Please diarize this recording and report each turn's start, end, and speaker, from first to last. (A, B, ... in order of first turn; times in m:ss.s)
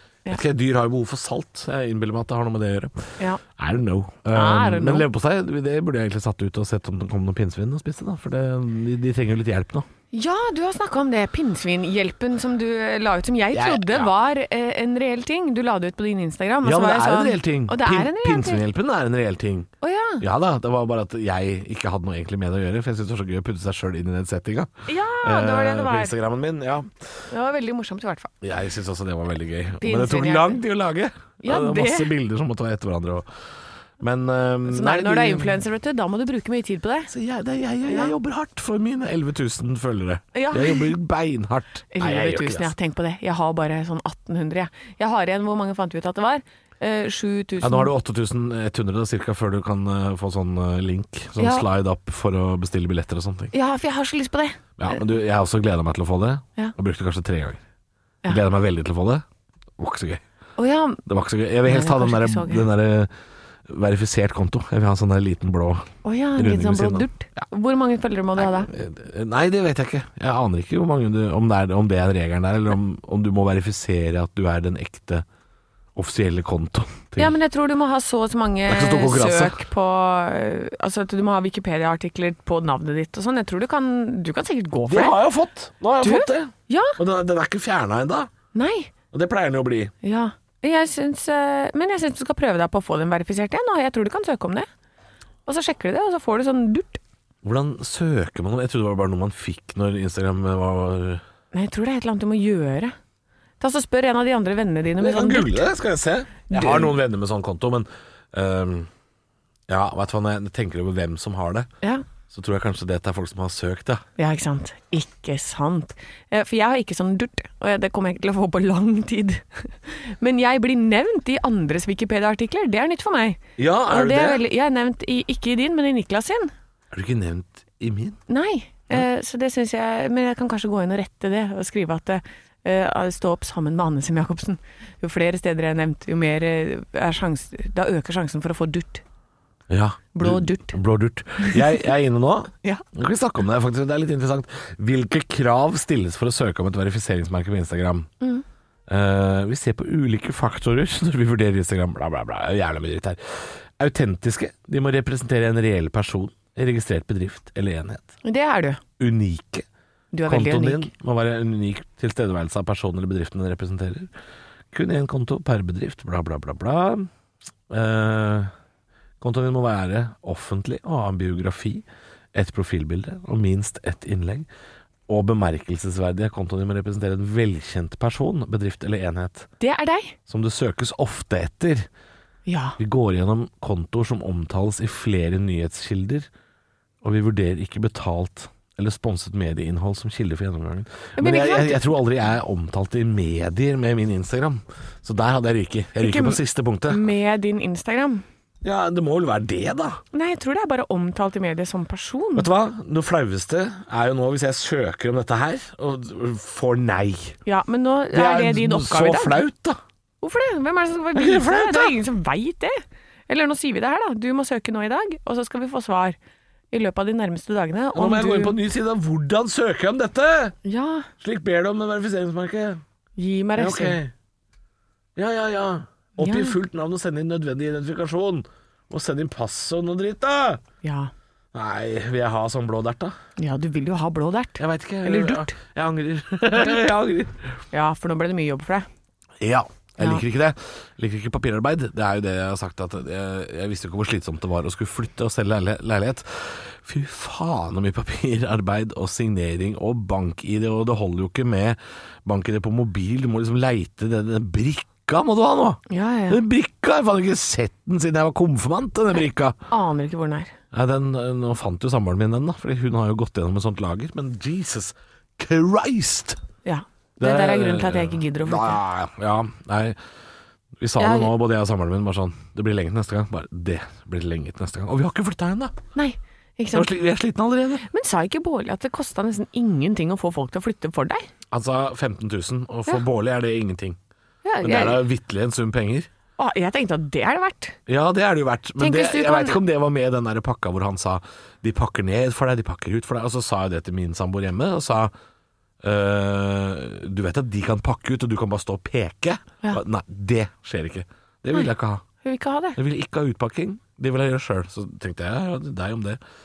0:00.3-0:09.9 A
0:04.3-0:05.0 B
0:10.1-0:18.6 B
0:13.5-0:14.1 A
0:16.6-0:19.7 A
0:19.8-0:20.2 B
0:20.2-0:24.7 A
0:24.9-0:26.1 B
0:25.2-0:27.1 A
0:27.3-0:28.3 B
0:28.4-0:33.3 A
0:29.8-0:30.6 B
0:31.4-0:32.1 B
0:34.0-0:35.5 A
0:34.6-0:37.1 B
0:37.1-0:42.7 A
0:37.8-0:38.1 B
0:40.3-0:40.9 B
0:41.9-0:47.9 B
0:47.6-0:53.5 A
0:51.4-0:51.6 B
0:53.5-0:54.9 B
0:54.8-0:57.6 A
0:58.3-0:59.2 A
0:59.8-1:00.2 A
1:00.6-1:01.0 B
1:01.0-1:03.1 A
1:01.6-1:02.6 B
1:03.7-1:07.4 A
1:06.0-1:08.7 B
1:08.4-1:15.2 A
1:15.9-1:17.3 A
1:17.2-1:25.2 B
1:18.7-1:19.6 A
1:24.9-1:28.3 A
1:26.0-1:27.0 B
1:28.5-1:28.9 B
1:29.1-1:29.9 A
1:30.0-1:34.7 B
1:35.4-1:37.0 B
1:37.4-1:41.2 A
1:41.5-1:42.9 B
1:43.6-1:45.6 B
1:45.0-1:48.9 A
1:46.5-1:46.9 B
1:49.7-1:51.7 A
1:52.3-1:54.0 A
1:54.2-2:06.5 B
2:03.6-2:04.4 A
2:06.9-2:08.2 A
2:08.3-2:19.0 B
2:19.7-2:28.1 A
2:20.1-2:20.8 B
2:28.9-2:38.1 A
2:38.2-2:38.8 B
2:39.0-2:39.6 A
2:40.1-2:40.9 B
2:40.2-2:44.1 A
2:44.7-2:47.1 A
2:47.7-2:48.5 A
2:49.2-2:54.5 A
2:55.1-2:59.5 A
2:59.6-3:00.2 B
3:00.3-3:01.9 A
3:02.4-3:02.8 B
3:02.8-3:06.3 A
3:07.0-3:17.0 A
3:11.2-3:11.9 B
3:16.0-3:18.2 B
3:18.6-3:20.0 A
3:20.1-3:22.5 B
3:22.4-3:27.4 A
3:27.4-3:29.4 B
3:28.1-3:29.8 A
3:30.2-3:36.2 B
3:31.1-3:32.0 A
3:36.7-3:38.6 B
3:37.9-3:40.6 A
3:40.6-3:41.1 B
3:41.2-3:42.8 A
3:43.2-3:44.0 B
3:43.6-3:44.1 A
3:45.2-3:50.6 A
3:46.2-3:46.6 B
3:50.8-3:51.1 B
3:51.5-3:53.2 A
3:53.4-3:55.5 B
3:54.6-3:57.5 A
3:57.7-3:58.8 B
3:59.4-4:19.6 A
4:15.9-4:16.4 B
4:19.7-4:20.5 B
4:20.7-4:26.4 A
4:26.6-4:28.8 B
4:27.2-4:30.0 A
4:30.8-4:35.7 A
4:31.0-4:31.3 B
4:35.9-4:36.9 B
4:36.7-4:37.8 A
4:37.9-4:41.3 B
4:41.5-4:44.0 A
4:44.4-4:45.0 B
4:44.6-4:46.1 A
4:46.4-4:47.8 B
4:47.9-4:55.1 A
4:48.8-4:49.6 B
4:55.8-5:02.0 A
5:02.2-5:02.8 B
5:02.8-5:06.2 A